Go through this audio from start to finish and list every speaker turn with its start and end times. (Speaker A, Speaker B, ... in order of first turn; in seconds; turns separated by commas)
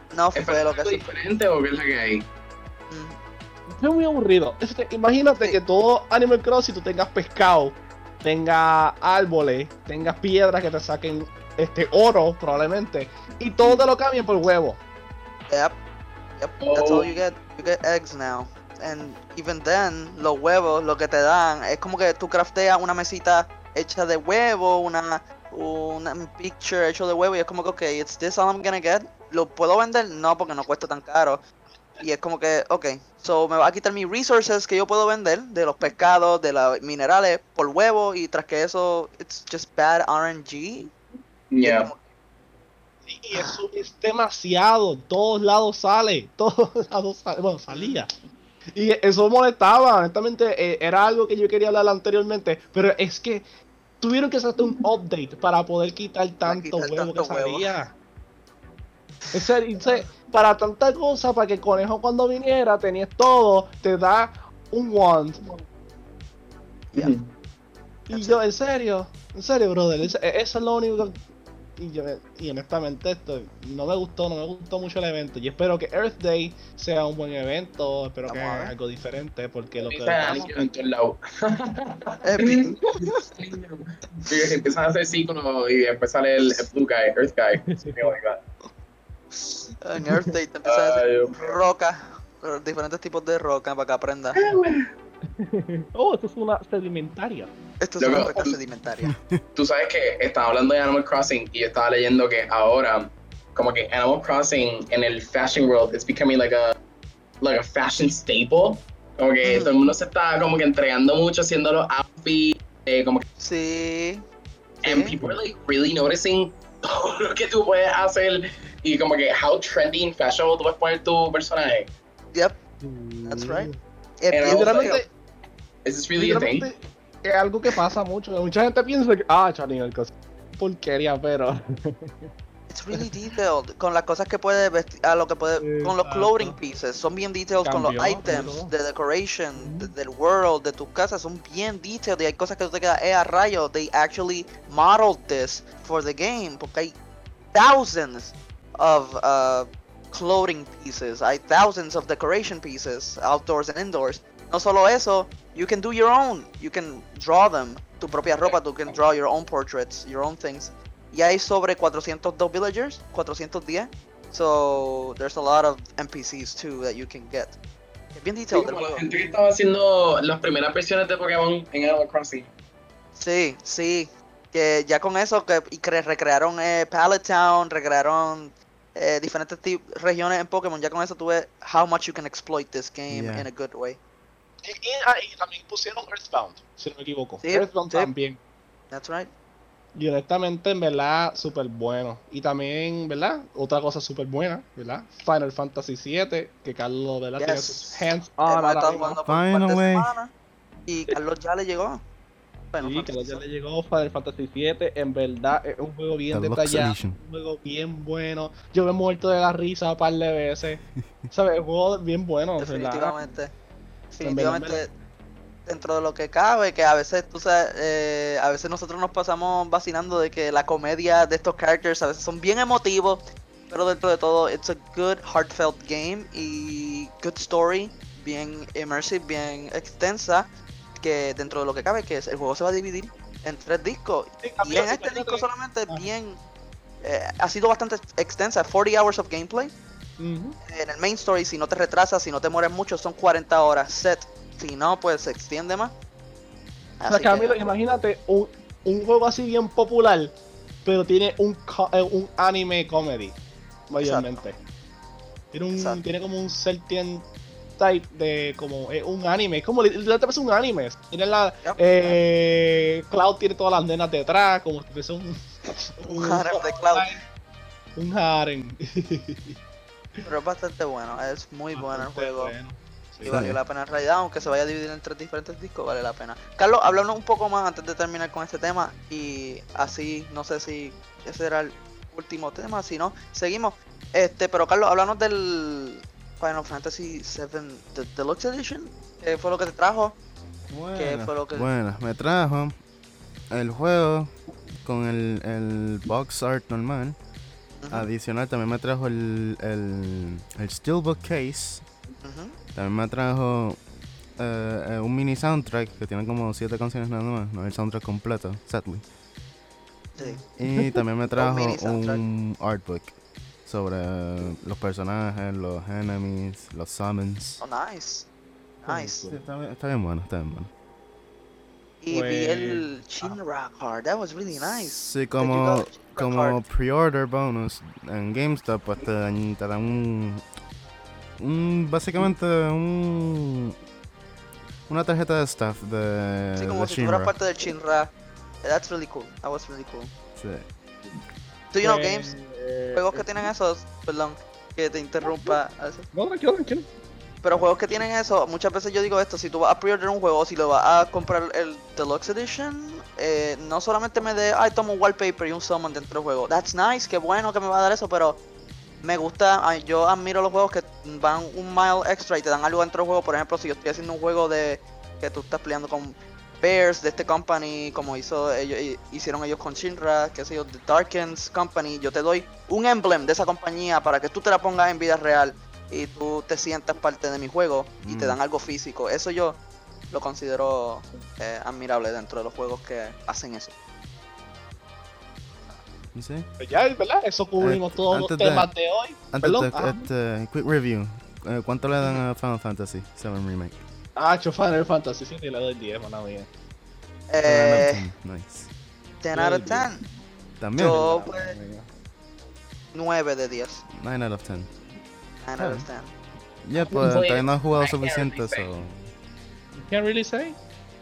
Speaker A: 0.1-1.1, Speaker B: 0.3-2.3, Speaker A: 2.9-3.2, Speaker C: 3.7-14.8, Speaker A: 15.5-15.8, Speaker A: 16.4-31.4, Speaker B: 16.6-17.2, Speaker A: 32.0-40.9, Speaker B: 41.5-41.9, Speaker A: 41.6-42.0, Speaker C: 43.0-48.1, Speaker A: 43.3-43.6, Speaker A: 47.7-48.0, Speaker C: 48.8-53.5, Speaker C: 54.0-58.0, Speaker A: 56.5-57.7, Speaker C: 59.3-65.5, Speaker B: 66.9-67.3, Speaker C: 68.1-71.2, Speaker A: 68.1-68.4, Speaker C: 71.8-80.5, Speaker A: 78.3-78.7, Speaker B: 79.8-88.4, Speaker A: 80.2-80.5, Speaker A: 82.2-83.2, Speaker C: 87.7-88.2, Speaker A: 89.3-94.4, Speaker B: 90.7-91.6, Speaker C: 94.4-94.8, Speaker B: 94.4-94.9, Speaker C: 95.4-97.5, Speaker A: 97.8-99.1, Speaker B: 98.0-98.5, Speaker D: 99.0-99.4, Speaker B: 99.6-106.8, Speaker B: 107.4-113.2, Speaker A: 109.4-109.8, Speaker A: 113.4-114.2, Speaker A: 114.8-115.2, Speaker B: 114.8-121.9, Speaker A: 122.3-122.6, Speaker C: 122.8-123.8, Speaker A: 123.2-125.0, Speaker B: 124.3-125.0, Speaker C: 124.5-125.1, Speaker B: 125.8-126.7, Speaker C: 126.2-132.3, Speaker A: 132.7-146.9, Speaker C: 135.6-136.6, Speaker C: 137.6-138.7, Speaker C: 139.6-139.9, Speaker A: 147.5-167.6, Speaker A: 168.1-169.3, Speaker B: 168.5-172.5, Speaker A: 173.2-184.0, Speaker D: 183.1-183.5, Speaker C: 184.7-188.4, Speaker A: 187.4-188.1, Speaker A: 188.9-189.3, Speaker C: 189.9-199.2, Speaker A: 197.4-200.3, Speaker D: 199.3-200.1, Speaker A: 200.9-202.0, Speaker A: 202.7-203.4, Speaker C: 202.8-213.2, Speaker D: 206.3-207.2, Speaker A: 212.6-213.5, Speaker A: 214.1-214.9, Speaker C: 214.2-214.8, Speaker A: 215.7-230.4, Speaker A: 231.0-236.4, Speaker C: 234.4-236.1, Speaker A: 237.0-239.7, Speaker C: 240.2-240.6, Speaker A: 240.7-245.9, Speaker A: 247.0-247.7, Speaker C: 247.1-253.4, Speaker C: 253.9-254.6, Speaker A: 254.0-254.4, Speaker C: 255.5-267.2, Speaker A: 255.8-256.0, Speaker A: 261.6-262.2, Speaker A: 266.1-267.1, Speaker C: 268.0-269.6, Speaker A: 270.2-272.6, Speaker C: 271.7-273.4, Speaker A: 273.2-290.2, Speaker D: 273.2-273.6, Speaker D: 290.7-292.8, Speaker A: 291.0-291.7, Speaker D: 293.5-294.3, Speaker D: 294.8-297.2, Speaker A: 297.8-298.1, Speaker D: 297.9-301.8, Speaker A: 302.2-302.6, Speaker D: 302.8-303.8, Speaker D: 304.4-309.0, Speaker A: 310.2-310.4, Speaker C: 310.2-311.0, Speaker D: 310.6-317.6, Speaker A: 311.4-312.2, Speaker A: 317.6-318.3, Speaker A: 318.8-319.3, Speaker C: 318.9-319.4, Speaker D: 319.3-320.7, Speaker A: 322.0-326.6, Speaker C: 322.1-323.4, Speaker D: 324.5-330.4, Speaker D: 331.4-333.7, Speaker D: 334.9-337.3, Speaker A: 336.6-338.1, Speaker A: 338.6-340.1, Speaker D: 340.4-340.7, Speaker A: 341.7-342.3, Speaker C: 341.8-343.5, Speaker A: 342.9-346.1, Speaker C: 345.2-345.6, Speaker C: 346.1-346.9, Speaker A: 347.4-358.4, Speaker A: 359.0-379.6, Speaker D: 378.0-378.4, Speaker A: 380.1-383.8, Speaker D: 386.1-386.5, Speaker C: 386.6-390.0, Speaker D: 387.6-388.7, Speaker D: 389.3-393.8, Speaker C: 394.2-396.5, Speaker A: 397.3-398.0, Speaker D: 397.4-398.7, Speaker A: 399.2-400.0, Speaker C: 399.3-399.9, Speaker D: 400.6-401.1, Speaker A: 400.8-401.6, Speaker C: 400.8-401.9, Speaker A: 402.9-403.9, Speaker D: 404.0-404.7, Speaker A: 405.4-406.1, Speaker D: 405.6-405.9, Speaker D: 406.6-409.0, Speaker B: 406.9-408.7, Speaker C: 409.8-410.6